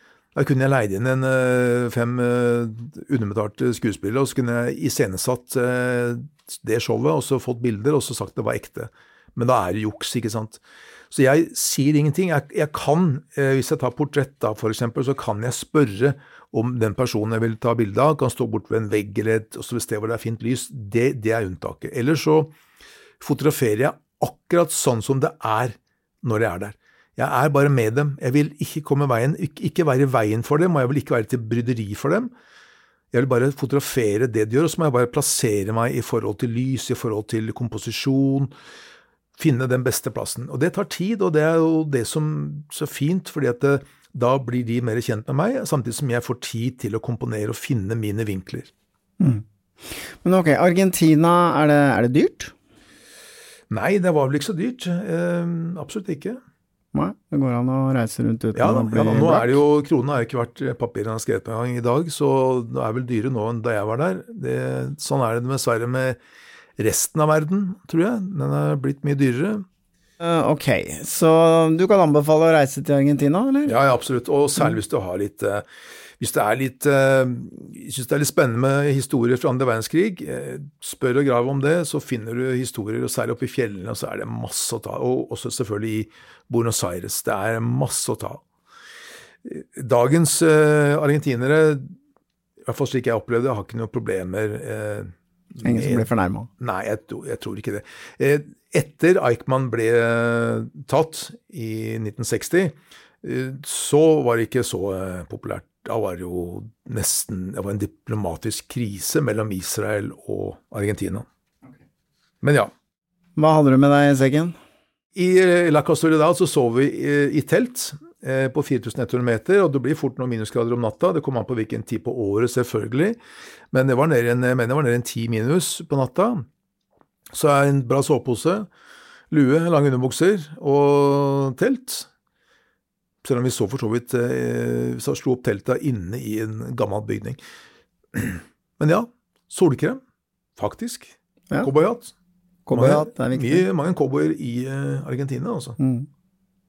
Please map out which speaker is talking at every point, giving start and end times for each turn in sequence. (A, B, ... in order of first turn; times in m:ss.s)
0:00.4-0:22.5 A
0:23.2-0:32.3 A
0:33.1-0:38.5 A
0:39.4-0:48.7 A
0:49.2-0:52.5 B
0:53.7-0:56.4 A
0:56.9-0:59.6 B
0:58.6-1:06.2 A
1:06.8-1:09.6 A
1:10.2-1:13.8 B
1:13.7-1:15.7 A
1:16.2-1:28.4 A
1:29.4-1:31.9 A
1:32.7-1:36.1 A
1:35.6-1:36.5 B
1:36.6-1:51.3 A
1:52.4-1:52.7 A
1:53.4-1:54.6 B
1:55.2-2:03.2 A
2:03.7-2:06.4 A
2:07.3-2:08.7 A
2:09.3-2:12.1 A
2:13.2-2:17.4 A
2:18.1-2:20.0 A
2:20.6-2:22.1 A
2:22.7-2:23.7 B
2:22.7-2:25.8 A
2:25.8-2:26.1 B